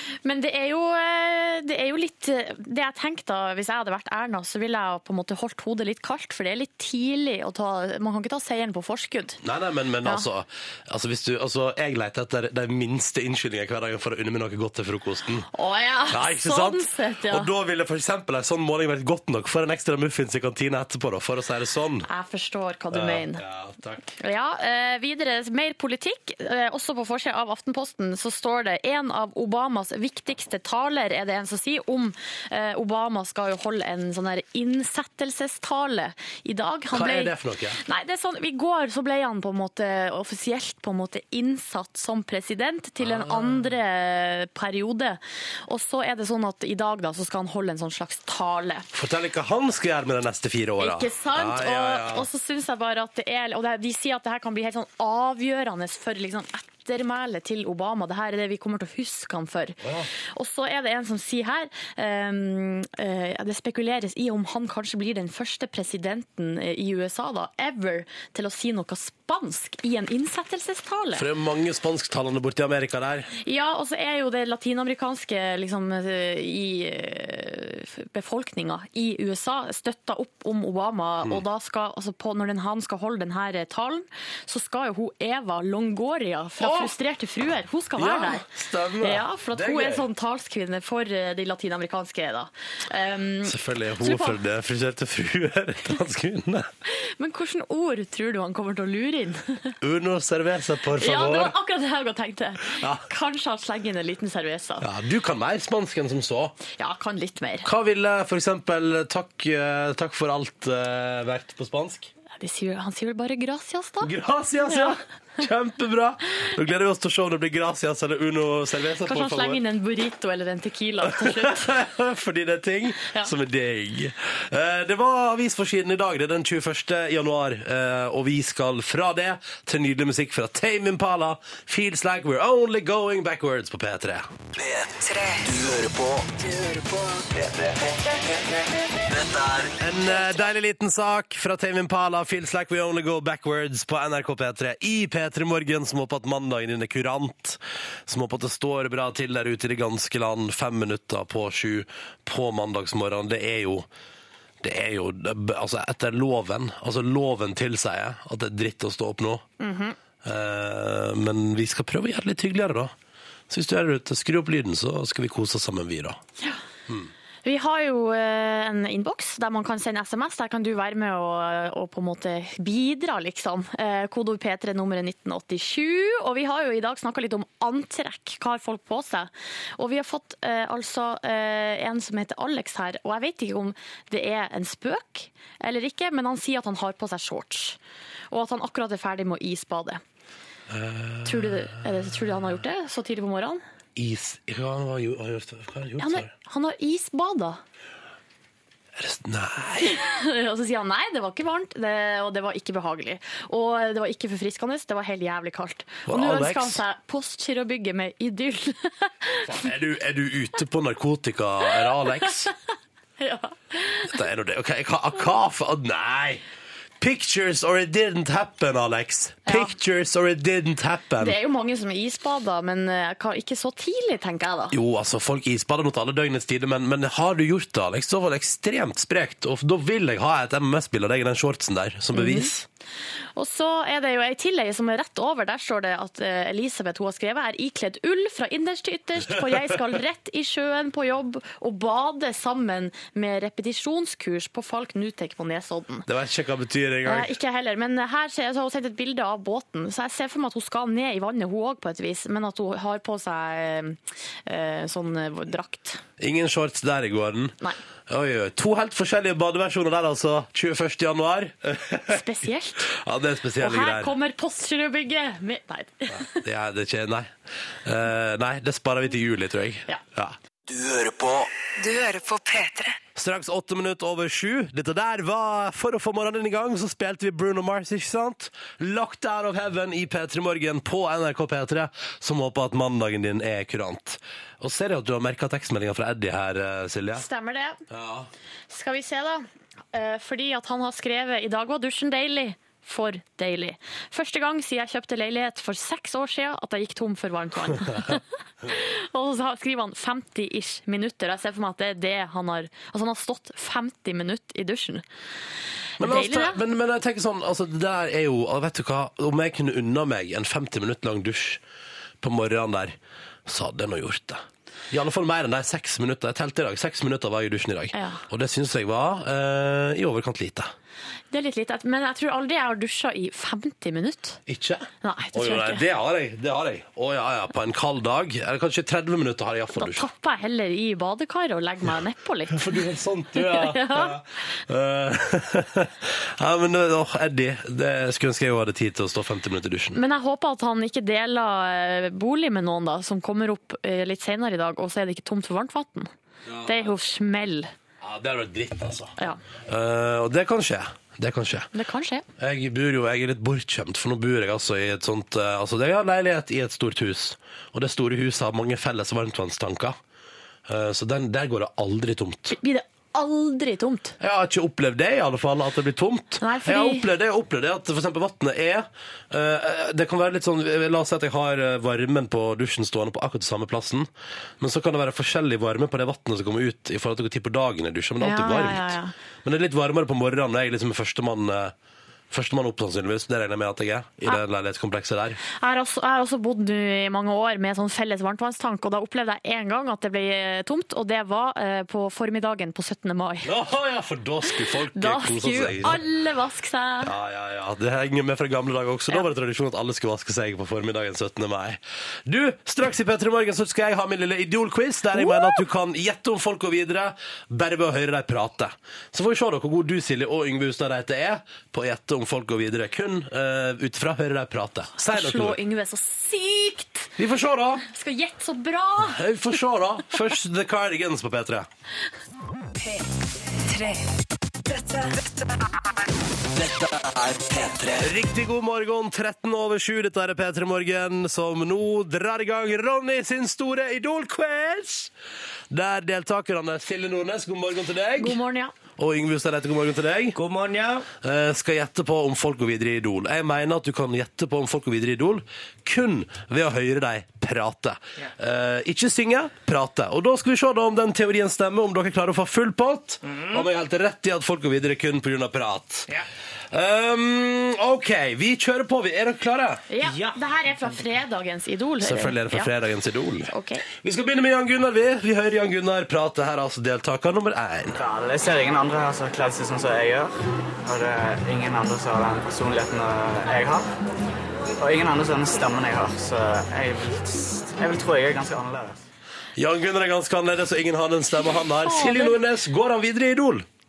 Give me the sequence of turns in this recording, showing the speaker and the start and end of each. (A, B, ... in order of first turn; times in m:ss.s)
0:00.2-0:09.4 A
0:09.4-0:15.5 B
0:15.5-0:17.5 A
0:16.1-0:22.1 B
0:22.1-0:23.4 A
0:22.9-0:24.1 B
0:24.2-0:48.9 A
0:36.9-0:37.8 B
0:43.0-0:43.7 B
0:48.9-0:52.3 B
0:50.8-0:59.8 A
0:59.8-1:00.1 B
1:00.3-1:11.2 A
1:11.1-1:13.3 B
1:13.4-1:28.4 A
1:26.6-1:26.9 B
1:28.0-1:30.0 B
1:29.0-1:34.4 A
1:33.4-1:36.7 B
1:36.9-1:39.7 A
1:39.8-1:41.5 B
1:41.0-1:44.9 A
1:42.8-1:43.0 B
1:44.8-1:46.6 B
1:46.8-1:47.7 A
1:47.6-1:52.1 B
1:52.4-1:54.1 A
1:54.0-1:59.6 B
1:54.7-1:54.9 A
1:59.0-2:01.8 A
2:01.0-2:14.3 B
2:03.0-2:03.3 A
2:14.5-2:17.8 C
2:19.1-2:19.7 C
2:19.8-2:33.9 B
2:34.6-2:39.4 B
2:39.6-2:40.0 A
2:40.2-2:42.9 B
2:43.5-2:46.2 B
2:47.4-3:07.8 A
3:08.3-3:10.0 A
3:10.7-3:12.0 B
3:11.2-3:13.6 A
3:14.0-3:16.3 B
3:16.0-3:17.6 A
3:19.0-3:20.0 B
3:19.8-3:29.5 A
3:26.1-3:26.8 B
3:29.4-3:32.5 B
3:33.2-3:34.1 A
3:34.1-3:36.4 B
3:37.0-3:41.4 B
3:39.4-3:39.7 A
3:41.2-3:44.8 A
3:44.7-3:52.7 B
3:52.1-3:52.5 A
3:53.4-4:06.1 A
4:06.1-4:07.3 B
4:07.0-4:16.0 A
4:16.2-4:17.5 B
4:18.1-4:22.2 B
4:22.1-4:22.9 A
4:22.8-4:24.1 B
4:23.6-4:26.3 A
4:26.2-4:27.3 B
4:27.8-4:30.4 B
4:30.7-4:33.0 C
4:33.1-4:47.2 B
4:47.1-4:47.8 A
4:47.9-4:48.3 B
4:48.7-5:05.0 A
5:06.0-5:06.6 A
5:06.0-5:11.6 B
5:12.2-5:20.7 B
5:17.9-5:18.2 A
5:21.3-5:24.4 A
5:24.5-5:30.1 B
5:25.0-5:25.8 A
5:29.8-5:32.8 A
5:32.5-5:40.0 B
5:33.3-5:34.1 A
5:39.9-5:46.1 A
5:46.4-5:46.9 B
5:46.6-5:47.7 A
5:48.0-5:49.1 B
5:49.7-5:51.7 B
5:51.7-5:52.2 A
5:52.4-6:00.0 B
6:00.7-6:02.6 B
6:02.5-6:04.2 A
6:04.2-6:14.1 B
6:06.4-6:07.0 A
6:14.6-6:21.7 B
6:18.2-6:19.1 A
6:22.3-6:25.4 B
6:25.5-6:33.5 A
6:33.4-6:36.0 B
6:34.9-6:37.1 A
6:37.0-6:55.6 B
6:45.1-6:45.6 A
6:55.0-6:57.1 A
6:57.2-6:57.8 B
6:57.9-6:59.2 A
6:59.0-7:01.7 B
7:03.7-7:03.9 C
7:04.7-7:05.2 C
7:06.6-7:06.8 B
7:07.5-7:15.1 B
7:15.7-7:18.4 B
7:18.2-7:18.7 A
7:19.0-7:20.4 B
7:20.3-7:21.1 D
7:21.2-7:36.1 B
7:33.2-7:33.6 D
7:36.7-7:39.8 B
7:39.9-7:42.7 A
7:40.0-7:41.0 D
7:42.0-7:48.0 B
7:43.5-7:43.8 A
7:48.0-7:50.3 E
7:50.8-7:53.9 E
7:54.8-7:59.0 E
7:59.6-8:03.6 B
8:01.8-8:02.4 A